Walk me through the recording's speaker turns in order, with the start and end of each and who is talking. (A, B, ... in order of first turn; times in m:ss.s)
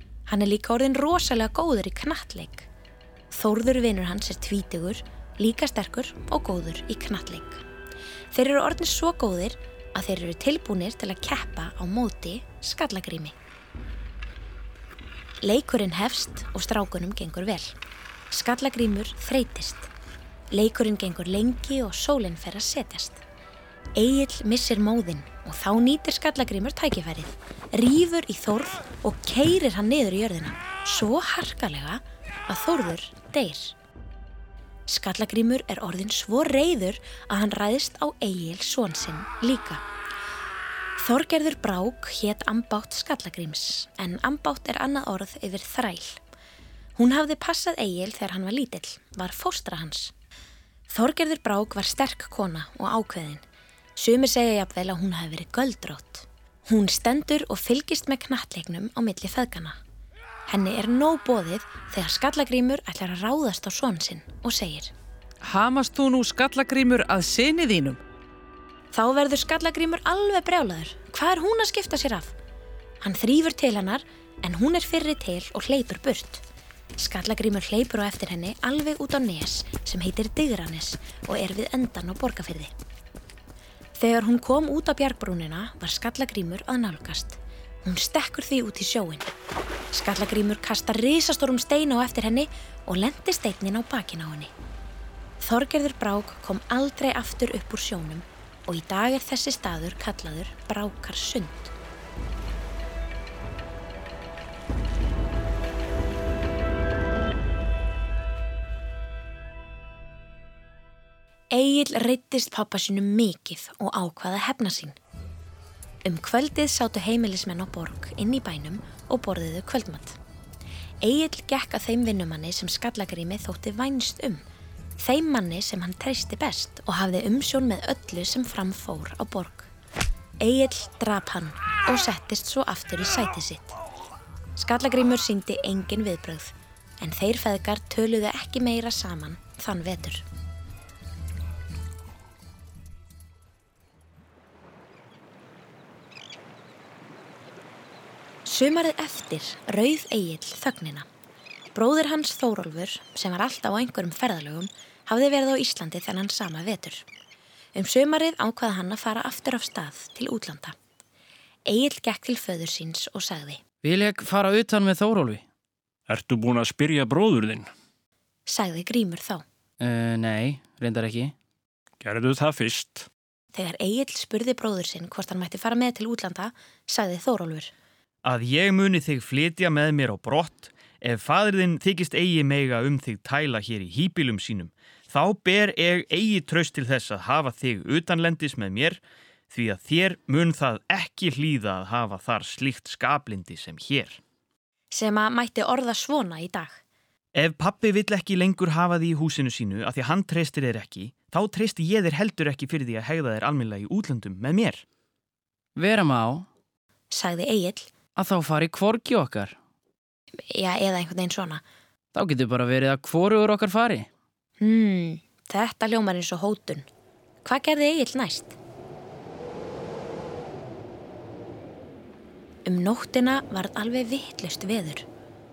0:00.3-0:02.7 A
0:03.3-0:07.6 A
0:08.3-0:13.4 A
0:15.4-0:17.7 A
0:18.3-0:19.9 A
0:20.5-0:23.2 A
0:24.0-0:33.8 A
0:34.9-0:39.8 A
0:41.0-0:46.2 A
0:47.0-0:50.1 A
0:50.9-0:53.4 A
0:54.0-0:59.8 A
1:00.5-1:04.9 A
1:05.4-1:08.0 B
1:08.9-1:12.3 A
1:13.0-1:16.4 A
1:17.0-1:22.7 A
1:24.0-1:29.3 A
1:29.9-1:34.5 A
1:35.4-1:41.7 A
1:51.5-1:55.0 A
1:56.0-2:00.2 A
2:01.0-2:04.4 A
2:05.0-2:09.7 A
2:10.4-2:13.7 A
2:14.6-2:20.2 A
2:28.4-2:31.1 A
2:31.7-2:37.0 A
2:37.8-2:40.8 A
2:41.7-2:43.6 A
2:43.8-2:45.4 C
2:46.1-2:47.7 D
2:48.5-2:49.4 A
2:49.8-2:51.3 C
2:52.0-2:53.1 D
2:53.5-2:57.7 A
2:58.2-3:14.2 E
3:14.9-3:16.8 A
3:17.4-3:24.8 E
3:25.8-3:26.5 C
3:27.1-3:27.9 A
3:28.2-3:29.6 C
3:30.5-3:31.6 A
3:32.1-3:34.1 C
3:34.6-3:36.9 A
3:37.4-3:38.6 A
3:42.6-3:45.0 A